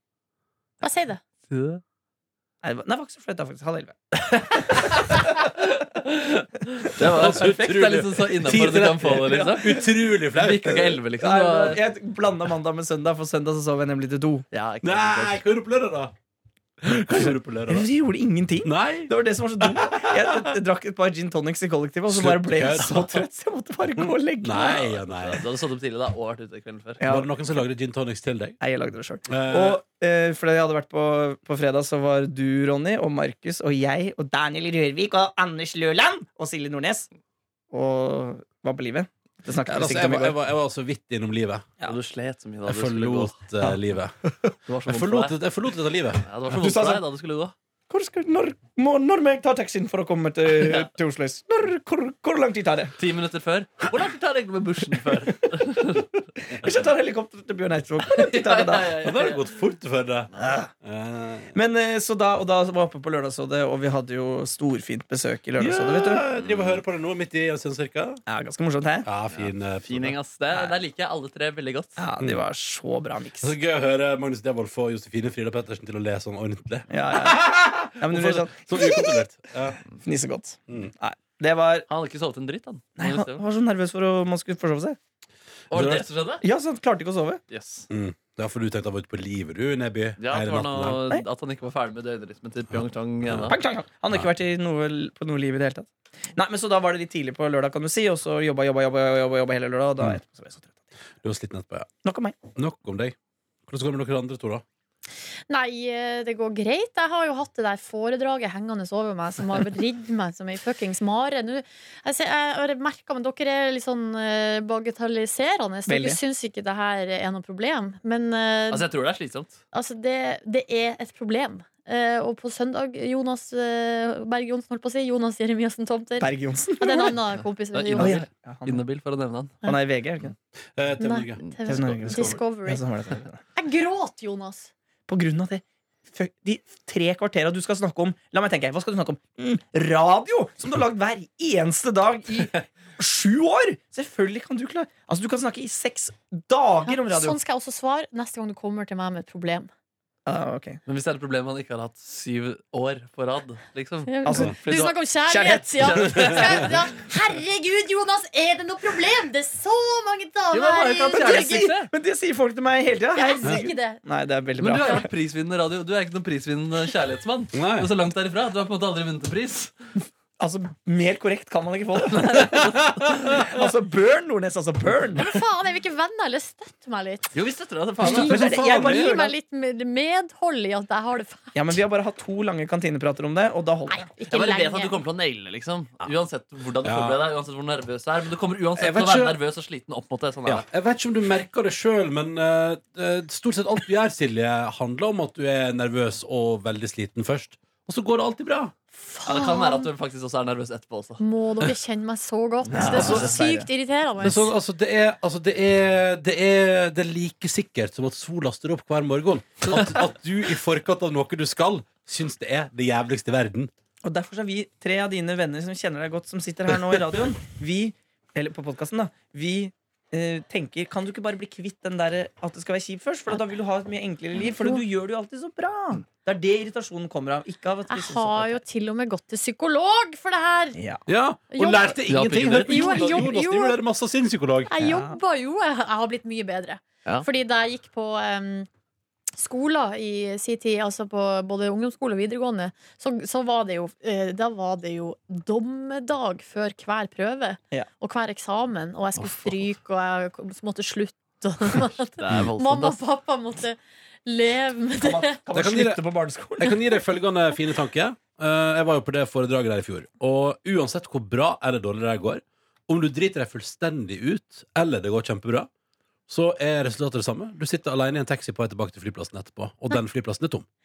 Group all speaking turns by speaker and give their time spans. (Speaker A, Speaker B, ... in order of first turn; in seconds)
Speaker A: 0.8-1.2, 105.5-118.9, 119.7-128.2, 131.0-132.8, 133.5-134.7, 146.8-149.7, 154.1-161.6, 163.1-164.0, 175.1-177.3, 178.0-181.6, 183.9-185.0, 199.0-199.9, 201.2-204.5, 224.4-224.8, 227.9-230.8, 231.5-232.0, 232.6-233.8, 234.7-238.7, 239.3-255.4
Speaker B: 1.5-1.8, 4.2-11.8, 14.5-15.4, 25.1-27.0, 41.8-43.3, 44.7-45.4, 46.2-47.5, 53.0-56.1, 58.1-59.5, 66.5-66.8, 69.3-72.0, 81.9-83.4, 85.7-86.4, 87.5-87.9, 90.2-93.6, 118.7-119.6, 127.7-129.5, 150.8-154.9, 160.5-161.9, 164.6-169.7, 172.1-173.4, 177.3-179.1, 184.3-190.6, 199.2-201.2, 202.7-203.3, 232.1-233.2, 249.2-249.5, 252.2-253.0
Speaker C: 2.6-4.8, 11.2-14.4, 17.1-25.0, 27.0-27.3, 28.6-37.1, 37.7-40.4, 43.6-44.5, 46.5-47.0, 47.9-52.9, 56.5-59.0, 60.4-60.7, 61.5-66.2, 68.2-69.1, 72.0-73.5, 76.9-79.3, 80.0-81.8, 83.0-85.0, 86.4-87.4, 93.5-100.8, 102.0-102.3, 115.9-116.2, 126.2-127.2, 128.0-128.8, 129.6-130.3, 131.7-133.4, 135.1-147.4, 150.2-150.8, 154.2-154.5, 155.3-156.7, 161.1-165.1, 170.4-175.3, 178.0-179.3, 181.5-184.1, 202.7-203.7, 214.0-228.6, 230.7-231.0, 234.8-235.2, 255.0-256.7
Speaker D: 7.0-11.0, 14.8-16.1, 16.8-17.9, 18.6-19.1, 19.9-20.3, 22.1-23.2, 24.0-25.4, 27.1-28.6, 29.3-29.8, 39.6-41.6, 42.6-44.2, 44.9-46.2, 59.0-60.3, 60.8-61.5, 65.6-68.2, 69.0-70.2, 73.4-79.8, 85.7-86.1, 87.9-91.0, 92.7-93.5, 101.2-101.9, 102.5-103.2, 103.7-104.6, 130.8-132.4, 167.5-167.9, 186.8-187.2, 188.8-189.4, 190.4-198.7, 202.8-203.3, 204.2-213.7, 231.1-234.7, 255.5-256.0, 256.6-265.7, 266.3-270.6